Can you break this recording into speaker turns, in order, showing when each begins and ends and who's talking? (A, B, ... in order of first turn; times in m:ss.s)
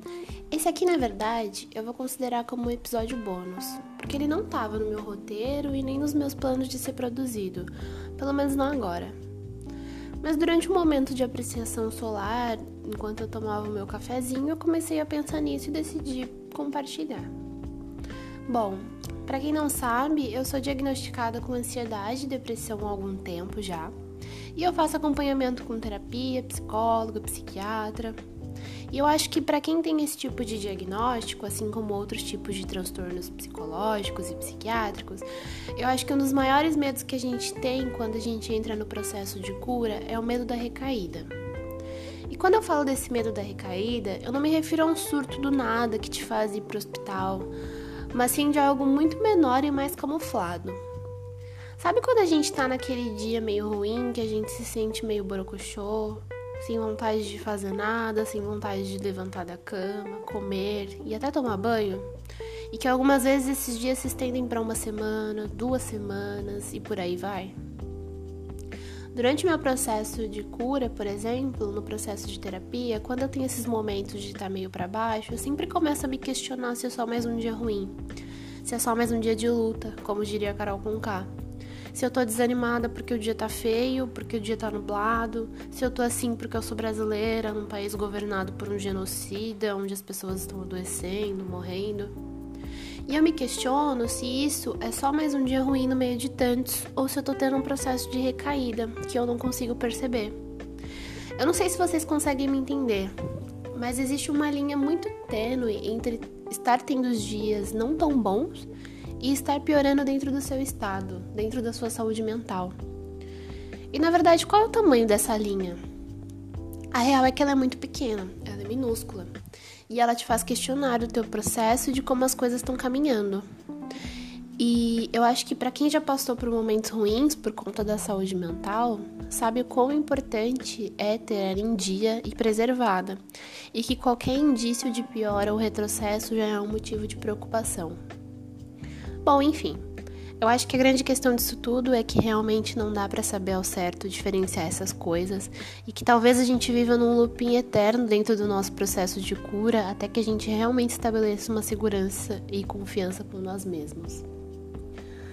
0:00.5-0:09.1 A
0:10.2-0:17.3 A
0:18.5-0:23.9 A
0:24.5-0:28.2 A
0:28.9-0:41.3 A
0:42.3-0:47.5 A
0:48.1-0:50.8 A
0:51.8-1:02.1 A
1:02.7-1:07.5 A
1:09.1-1:18.0 A
1:18.6-1:21.3 A
1:21.9-1:32.1 A
1:33.0-1:40.4 A
1:41.4-1:43.2 A
1:43.7-1:48.7 A
1:49.2-1:52.7 A
1:53.9-1:55.8 A
1:56.9-1:59.3 A
1:59.9-2:03.4 A
2:04.6-2:18.0 A
2:19.2-2:19.8 A
2:20.4-2:34.2 A